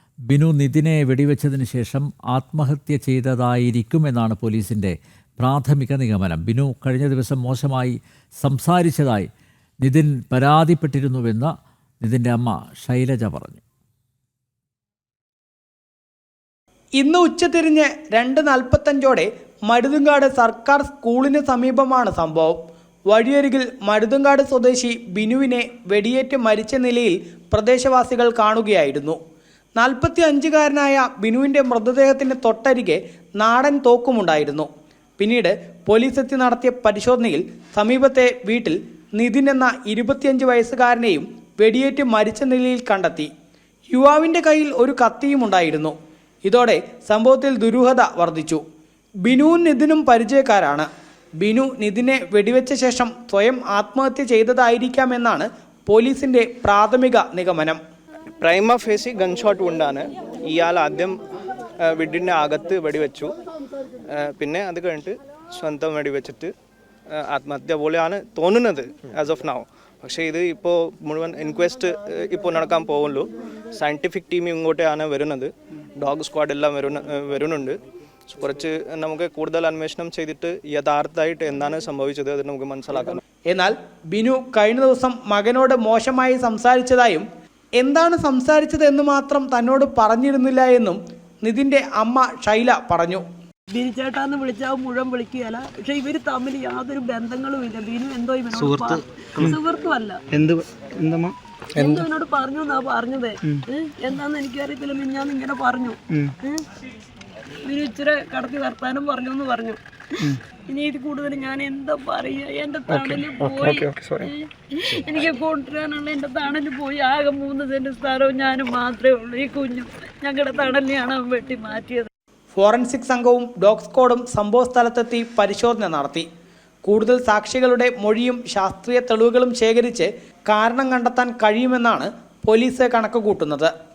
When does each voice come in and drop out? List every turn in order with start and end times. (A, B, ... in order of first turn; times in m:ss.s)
0:00.3-0:09.3 A
0:09.8-0:11.5 A
0:12.0-0:13.6 A
0:17.0-0:22.6 B
0:23.1-0:29.2 B
0:29.8-0:34.7 B
0:35.2-0:43.3 B
0:43.9-0:45.9 B
0:46.5-0:48.6 B
0:49.2-0:50.9 B
0:51.4-0:57.8 B
0:58.4-1:01.1 C
1:01.8-1:03.3 C
1:04.1-1:06.5 C
1:07.1-1:17.8 C
1:18.3-1:23.2 C
1:23.5-1:27.2 B
1:27.8-1:33.2 B
1:33.7-1:40.2 D
1:38.5-1:39.6 E
1:40.3-1:42.1 E
1:41.8-1:46.6 D
1:47.7-2:02.1 D
1:52.9-1:54.3 E
2:02.6-2:06.3 B
2:06.8-2:13.7 B